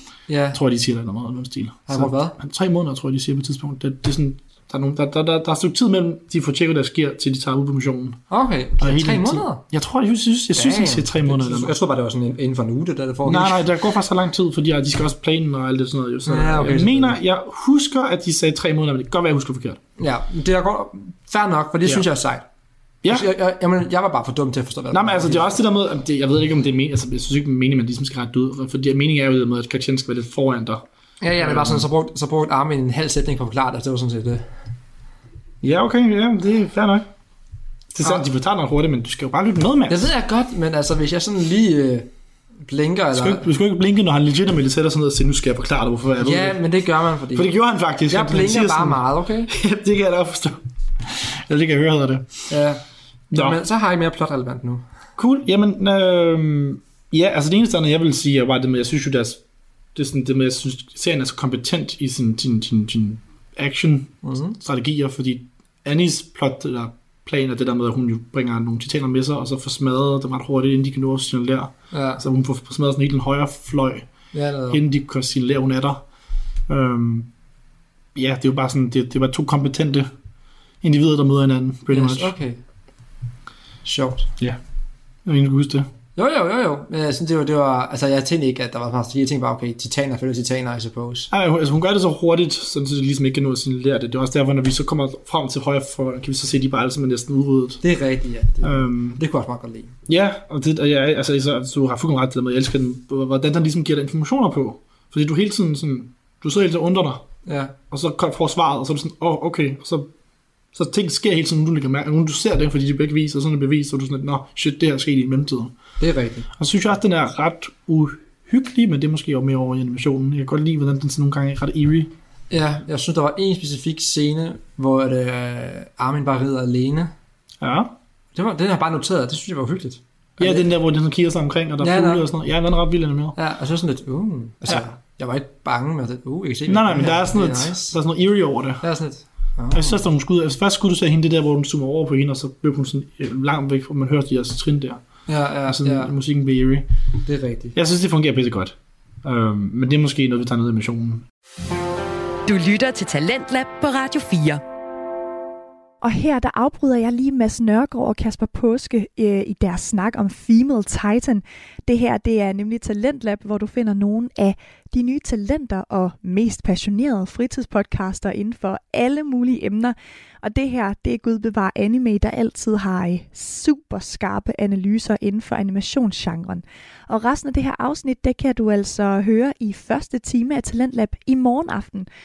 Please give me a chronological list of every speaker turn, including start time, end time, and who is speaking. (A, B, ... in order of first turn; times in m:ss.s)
0:00.3-0:00.6 A
0:00.5-0:08.2 B
0:01.9-0:02.4 A
0:08.3-0:09.6 A
0:08.8-0:11.7 B
0:10.6-0:13.7 A
0:13.2-0:19.8 B
0:16.3-0:17.2 A
0:20.0-0:22.4 A
0:23.0-0:23.3 B
0:23.1-0:25.5 A
0:24.9-0:30.8 B
0:31.2-0:34.5 A
0:31.4-0:31.9 B
0:35.6-0:37.1 B
0:37.9-0:40.1 B
0:38.0-0:38.3 A
0:39.9-0:42.1 A
0:42.7-0:43.4 A
0:43.1-0:46.6 B
0:46.2-0:47.5 A
0:47.3-0:52.5 B
0:48.1-0:49.5 A
0:52.5-0:54.8 A
0:53.3-0:53.6 B
0:55.2-0:59.4 B
0:59.9-1:14.1 B
1:04.2-1:04.6 A
1:11.9-1:12.2 A
1:14.3-1:14.8 A
1:14.7-1:16.0 B
1:16.7-1:17.3 B
1:18.1-1:20.1 B
1:20.8-1:22.3 B
1:21.9-1:22.6 A
1:23.8-1:24.3 A
1:25.2-1:25.9 B
1:26.2-1:31.3 A
1:31.3-1:37.8 B
1:37.8-1:39.9 A
1:38.6-1:39.2 B
1:40.1-1:47.2 B
1:47.4-1:47.7 A
1:47.9-1:50.1 B
1:50.7-1:55.7 B
1:56.0-1:56.5 A
1:56.6-2:02.1 B
2:02.5-2:07.1 A
2:07.6-2:07.9 B
2:08.3-2:10.7 A
2:10.4-2:13.4 B
2:11.8-2:12.3 A
2:13.4-2:17.9 A
2:16.7-2:18.8 B
2:18.8-2:20.0 A
2:19.7-2:25.0 B
2:25.3-2:26.1 A
2:25.7-2:26.9 B
2:27.2-2:27.7 A
2:27.7-2:31.2 B
2:32.4-2:34.6 C
2:36.0-3:02.1 D